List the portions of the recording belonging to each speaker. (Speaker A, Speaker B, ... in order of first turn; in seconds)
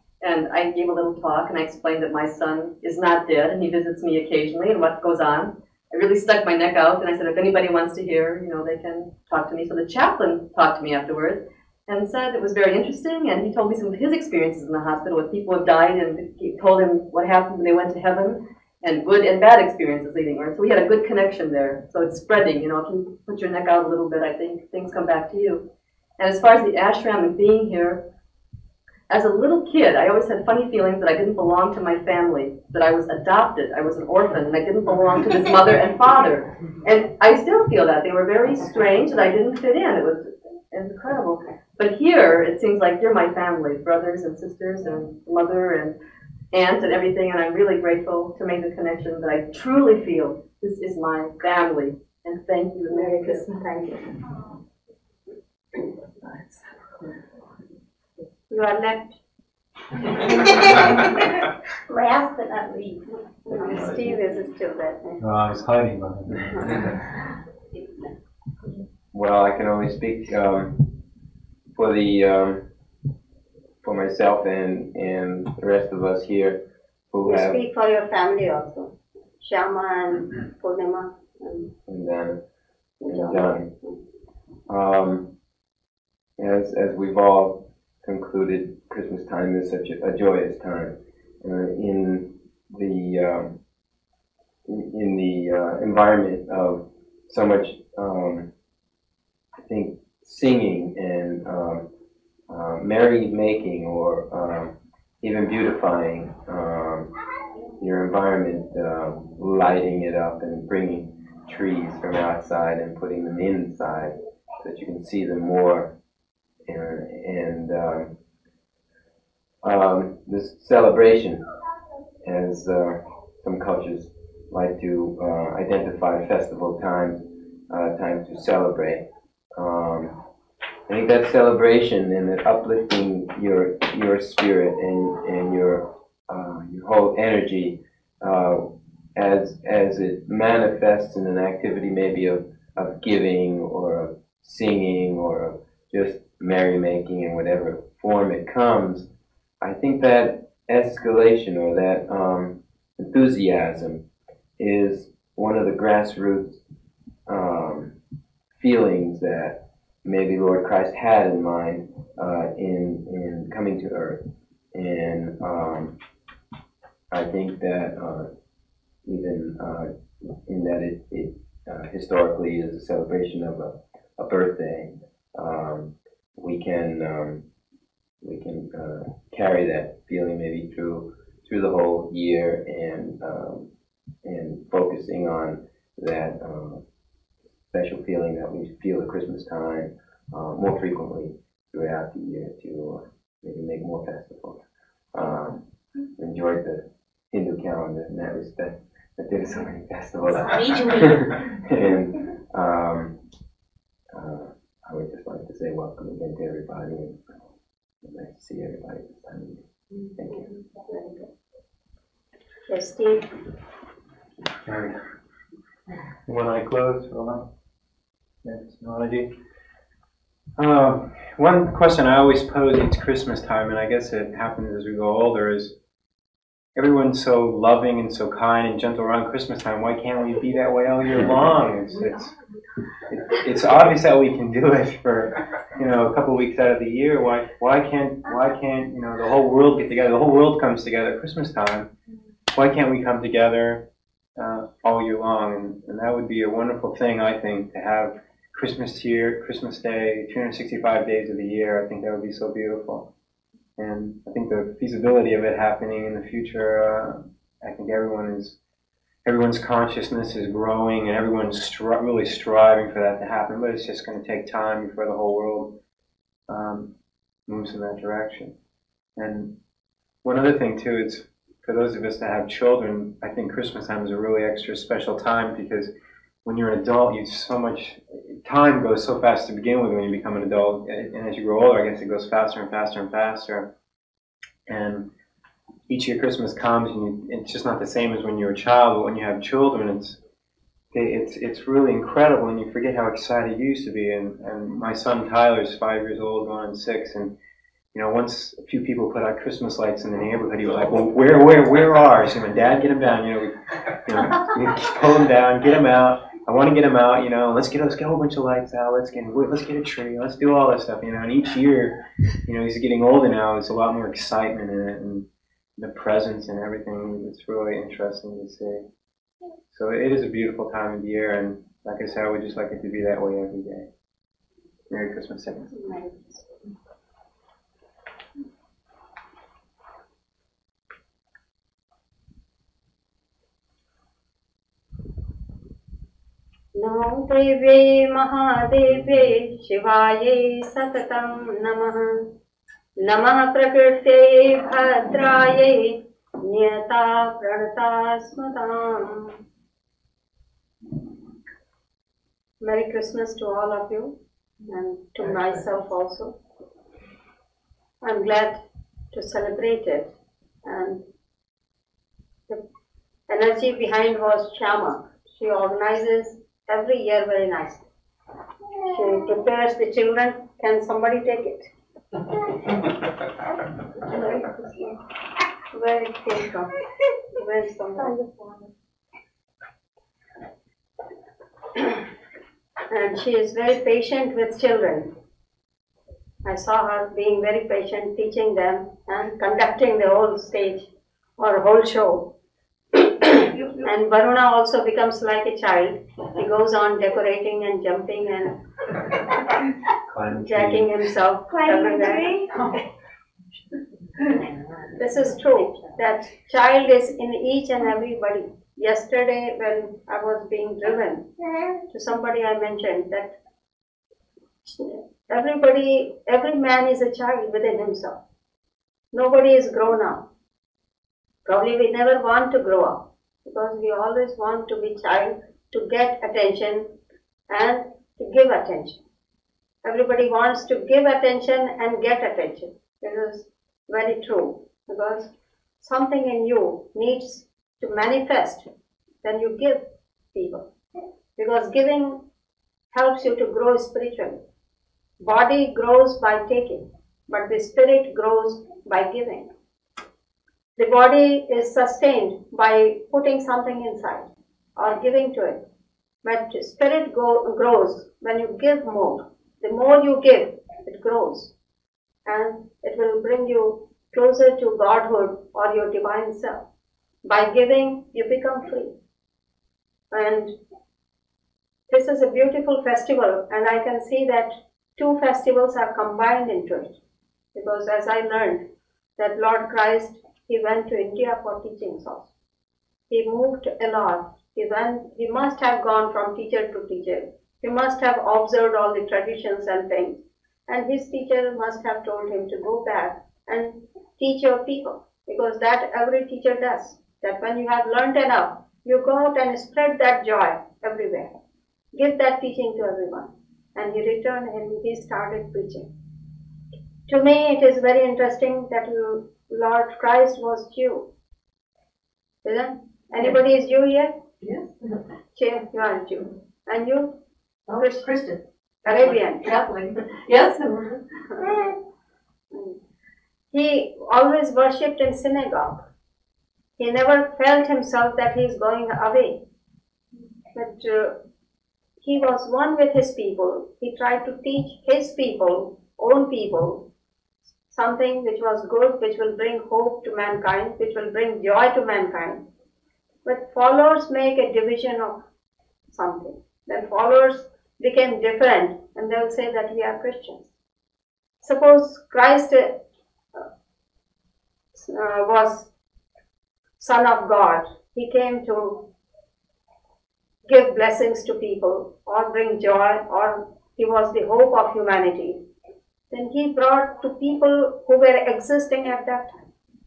Speaker A: 0.2-28.1, 29.1-46.0, 46.5-53.6, 56.2-56.5, 514.4-515.0, 517.7-521.5
Speaker B: 52.9-54.0, 58.5-59.2, 63.5-65.2, 77.2-81.7, 83.0-84.0, 210.3-211.3, 212.7-213.3, 325.8-326.4, 336.7-342.3, 343.0-349.4, 352.6-354.2, 354.7-356.4, 358.0-358.6, 359.1-360.1, 360.6-361.0, 363.3-367.8, 368.8-371.7, 374.0-375.0, 375.7-376.7, 377.4-378.1, 382.9-385.1, 386.4-392.3, 392.9-398.6, 400.4-402.4, 404.9-411.3, 411.9-413.4, 414.7-418.2, 419.1-420.3, 421.4-426.9, 427.5-429.0, 429.8-438.7, 439.2-440.7, 441.4-442.2, 442.9-444.4, 445.2-449.5, 450.8-455.6, 456.2-461.5, 462.3-466.7, 467.2-468.9, 470.1-470.5, 471.9-476.9, 477.6-478.6, 479.2-482.3, 483.1-501.3, 501.9-505.9, 507.1-511.1, 512.4-514.2, 515.4-517.1, 517.8-518.1, 518.9-519.5, 523.5-525.9, 526.8-529.4, 530.5-531.2, 532.0-536.9, 537.7-542.5, 543.2-545.2, 545.9-550.5, 551.4-552.8, 554.7-555.7, 556.8-558.9, 560.5-565.4, 566.1-569.5
Speaker C: 60.5-60.9, 61.9-63.1, 200.5-201.2, 378.0-378.6, 401.5-402.4
Speaker D: 63.6-64.0, 69.1-71.0, 71.7-72.7, 73.8-77.6, 81.9-82.4, 83.1-83.7, 84.7-85.3, 86.4-93.6, 94.7-98.5, 99.6-101.9, 102.5-107.1, 107.8-115.9, 116.7-118.1, 119.6-121.5, 122.2-130.2, 130.9-149.1, 149.6-154.0, 154.6-156.6, 157.3-157.9, 158.6-166.0, 167.1-168.3, 169.1-177.4, 178.2-183.7, 184.2-186.8, 187.7-194.6, 195.1-195.6, 196.2-203.2, 204.1-207.2, 208.0-209.6, 210.2-210.5
Speaker E: 65.2-66.5, 214.7-215.0, 216.3-217.5, 218.4-219.3, 220.6-225.7, 226.8-232.3, 233.1-241.9, 242.5-243.8, 244.4-253.1, 253.8-258.6, 259.2-265.8, 266.5-266.9, 267.5-268.5, 269.2-269.6, 270.2-275.9, 276.4-283.7, 284.7-285.1, 285.9-290.2, 290.9-297.3, 297.9-315.3, 315.8-318.8, 319.7-323.9, 324.9-325.8, 400.1-400.9